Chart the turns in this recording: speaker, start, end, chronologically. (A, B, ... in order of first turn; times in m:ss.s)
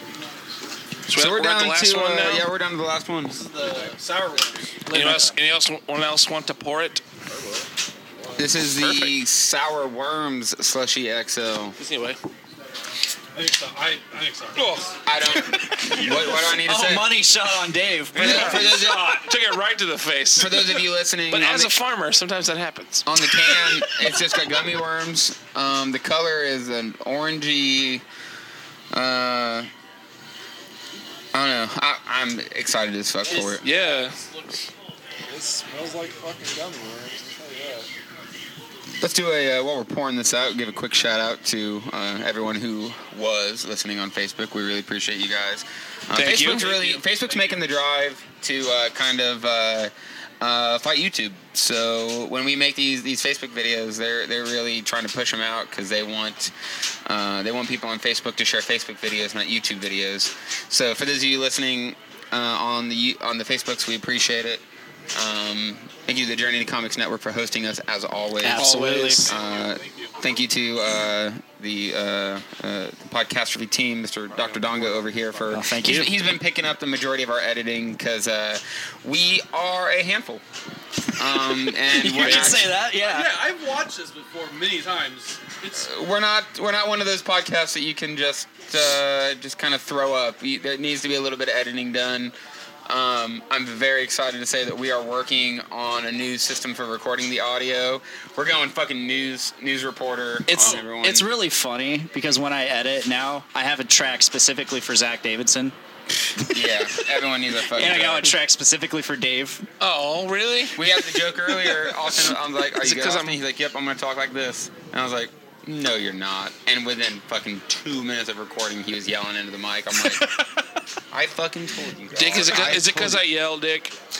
0:01.1-0:02.4 A
0:01.1-0:03.4 B
0:03.2-0:05.3 C
0:03.6-0:03.9 D
0:04.9-0:07.0 A
0:07.3-0:08.4 D
0:08.4-0:11.8 B
0:08.7-0:09.1 A
0:11.8-0:12.2 A
0:13.3-0:14.8 C
0:14.6-0:14.9 A
0:15.0-0:17.1 B
0:15.8-0:16.4 C
0:16.4-0:18.4 E
0:18.1-0:19.3 B
0:18.1-0:19.3 C
0:18.2-0:23.9 A
0:20.4-0:21.7 B
0:23.0-0:28.0 B
0:28.9-0:29.7 B
0:31.3-0:33.6 B
0:33.3-0:34.7 C
0:33.6-0:34.2 A
0:35.3-0:37.9 D
0:39.0-0:56.5 B
0:46.1-0:46.7 A
0:46.4-0:47.7 C
0:57.0-1:08.7 B
1:08.4-1:09.3 E
1:08.6-1:09.3 A
1:09.2-1:10.2 C
1:09.2-1:20.4 B
1:14.3-1:15.5 D
1:15.5-1:16.1 E
1:21.2-1:22.7 B
1:21.8-1:23.3 E
1:22.2-1:25.9 C
1:25.7-1:32.3 B
1:32.9-1:41.3 B
1:40.5-1:45.7 E
1:40.6-1:40.8 C
1:46.4-1:46.7 E
1:46.5-1:48.3 B
1:47.7-1:49.6 E
1:49.8-1:50.9 A
1:50.7-2:00.3 B
1:52.8-1:53.4 A
2:01.1-2:03.2 B
2:02.1-2:03.9 A